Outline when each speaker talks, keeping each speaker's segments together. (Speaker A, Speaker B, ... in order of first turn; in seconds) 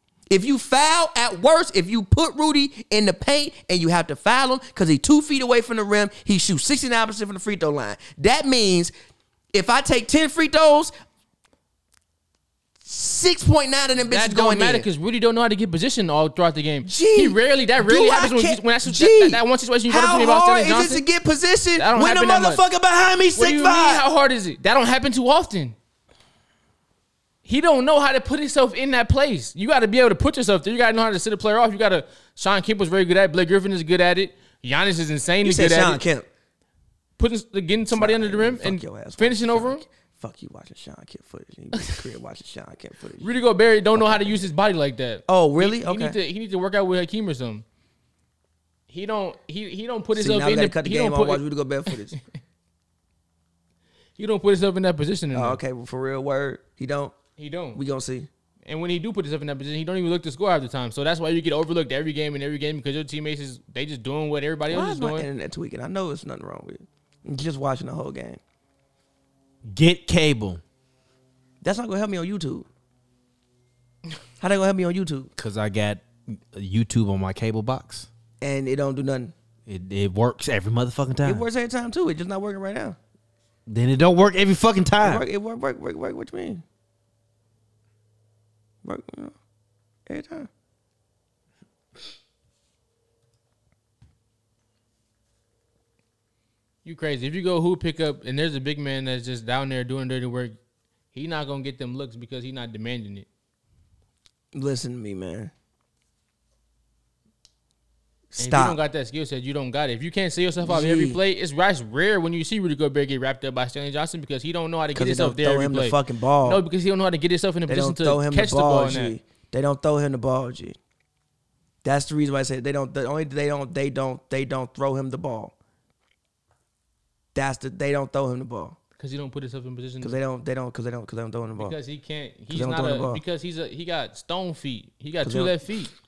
Speaker A: 0.3-8.9, 9.5-10.9, 12.8-14.8, 16.8-24.0, 35.4-36.3, 37.9-43.3, 43.9-44.5, 45.3-46.1, 50.1-52.1, 55.3-57.1, 57.7-58.3, 64.7-68.4, 71.6-72.7, 74.4-75.3, 78.4-79.3, 81.2-83.0, 85.0-86.6, 88.8-89.3, 90.1-90.5, 104.5-105.5, 108.3-108.8, 110.6-111.2, 114.9-116.6, 117.7-120.8, 121.8-125.5, 127.3-128.8, 130.0-131.8, 132.5-133.2, 135.2-135.6
Speaker B: 14.0-21.0, 21.8-22.6, 23.3-25.8, 27.4-36.0, 37.2-39.8, 41.8-42.0, 43.2-47.6, 48.9-52.2, 54.2-55.6, 57.4-57.8, 58.6-65.3, 96.8-100.6, 101.1-103.3, 108.4-119.2, 129.0-130.2, 131.6-135.9
Speaker C: 69.6-70.6, 75.4-78.1, 79.7-81.5, 83.7-85.2